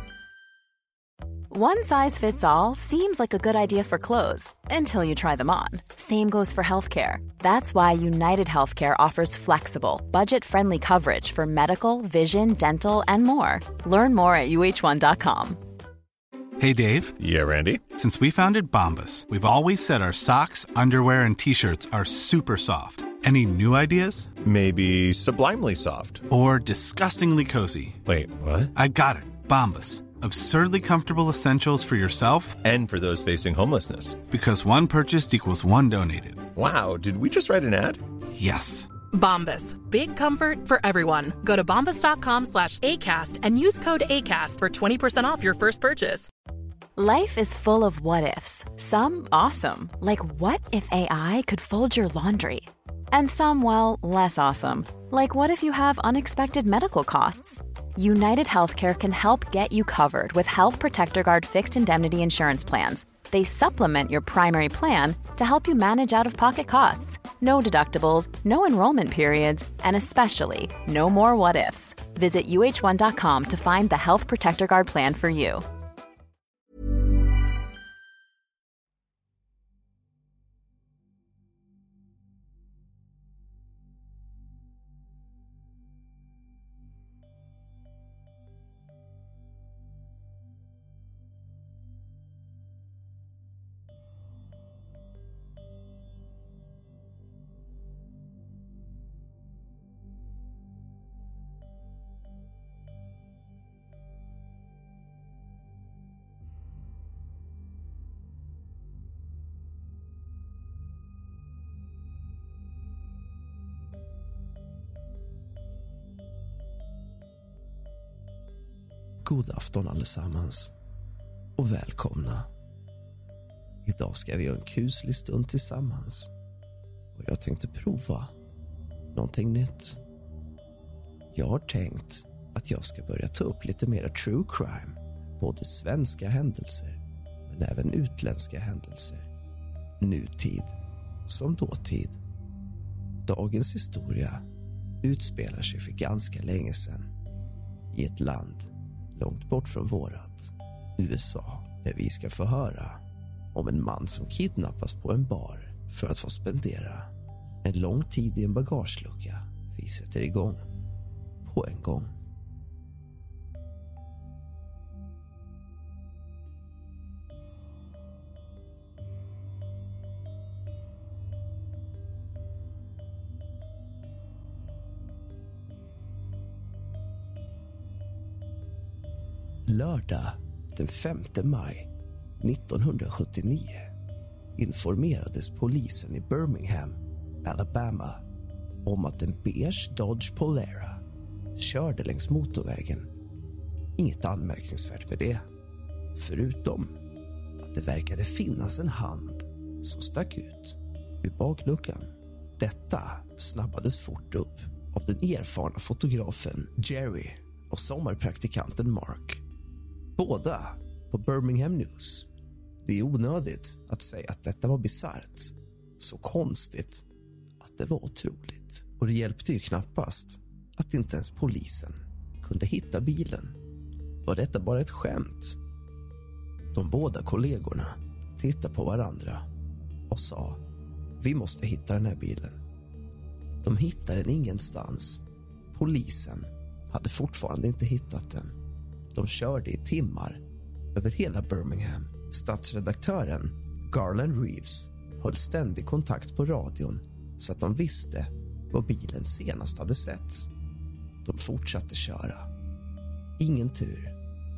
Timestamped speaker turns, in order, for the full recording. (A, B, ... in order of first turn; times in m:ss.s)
0:01.5-0:15.6 A
0:16.6-0:17.2 B
0:17.2-0:17.9 C
0:17.9-0:24.3 B
0:24.4-0:26.3 C
0:26.3-0:28.0 B
0:28.0-0:28.7 C
0:28.8-0:32.6 B
0:32.6-0:34.2 C
0:34.3-0:36.5 B
0:36.5-0:38.0 C
0:38.4-0:38.9 B
0:39.1-0:46.3 D
0:47.0-1:15.6 A
1:59.2-2:00.7 E
2:01.6-2:02.5 E
2:03.8-2:06.3 E
2:07.2-2:08.3 E
2:09.1-2:10.0 E
2:11.3-2:19.3 E
2:20.0-2:20.8 E
2:21.3-2:22.2 E
2:23.3-2:24.4 E
2:25.0-2:27.1 E
2:27.9-2:33.0 E
2:33.5-2:37.1 E
2:37.6-2:40.6 E
2:41.4-2:42.1 E
2:59.7-3:01.9 E
3:02.4-3:03.9 E
3:04.6-3:08.2 E
3:08.8-3:11.0 E
3:11.6-3:13.1 E
3:14.0-3:15.4 E
3:16.2-3:16.9 E
3:17.6-3:22.1 E
3:22.6-3:29.4 E
3:30.2-3:32.3 E
3:32.8-3:37.1 E
3:37.6-3:43.6 E
3:44.2-3:45.6 E
3:46.7-3:49.4 E
3:50.1-3:50.6 E
3:51.2-3:52.6 E
3:53.6-3:58.6 E
3:59.1-4:00.4 E
4:00.9-4:10.5 E
4:11.2-4:12.5 E
4:13.4-4:14.2 E